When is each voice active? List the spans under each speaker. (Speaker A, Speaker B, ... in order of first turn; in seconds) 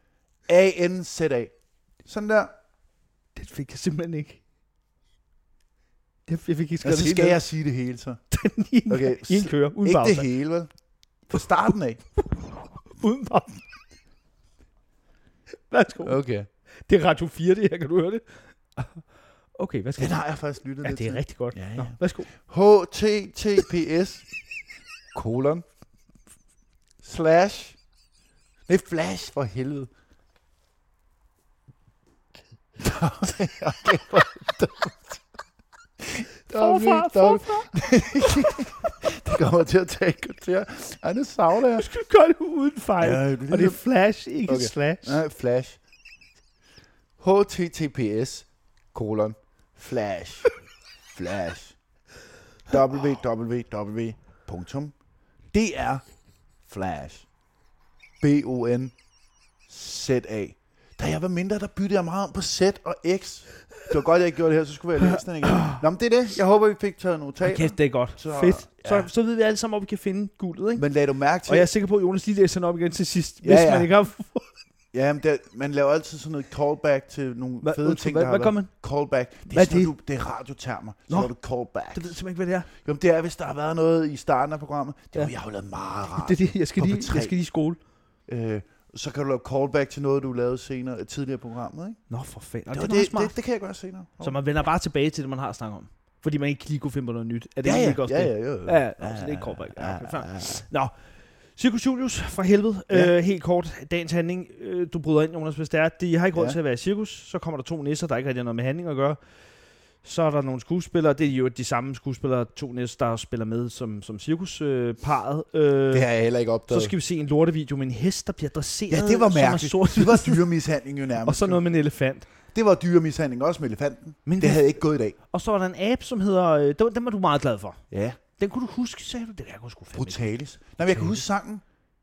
Speaker A: 0.5-1.5, 2.0-2.5, 6.8-8.2, 8.9-10.7, 11.3-12.0, 16.0-16.5, 20.0-24.2, 25.1-25.6, 27.0-27.8, 28.7-29.9, 32.8-35.2, 36.0-41.9, 43.0-43.8, 44.5-45.8, 47.2-50.5, 51.1-51.8, 52.7-54.9, 55.5-56.0, 56.6-57.2, 58.2-58.9, 59.7-69.1, 70.8-71.7, 73.4-73.9, 74.9-82.2, 82.7-87.3, 88.3-92.0, 92.7-94.4, 97.6-100.6, 115.9-116.9, 118.9-121.6, 122.5-125.2, 127.9-128.2, 129.9-131.6
Speaker B: 3.3-4.4, 6.3-7.4, 8.3-10.3, 12.9-13.6, 15.7-16.2, 16.9-18.2, 18.7-19.0, 19.6-20.2, 20.8-22.3, 36.5-38.9, 41.7-45.2, 65.0-65.8, 67.4-70.8, 71.5-74.5, 77.6-78.7, 79.5-79.9, 81.9-82.7, 86.1-87.8, 92.1-93.3, 94.2-100.9, 101.5-109.2, 110.0-116.1, 116.7-120.4, 121.2-122.3, 124.2-127.8, 128.4-130.3, 130.9-131.2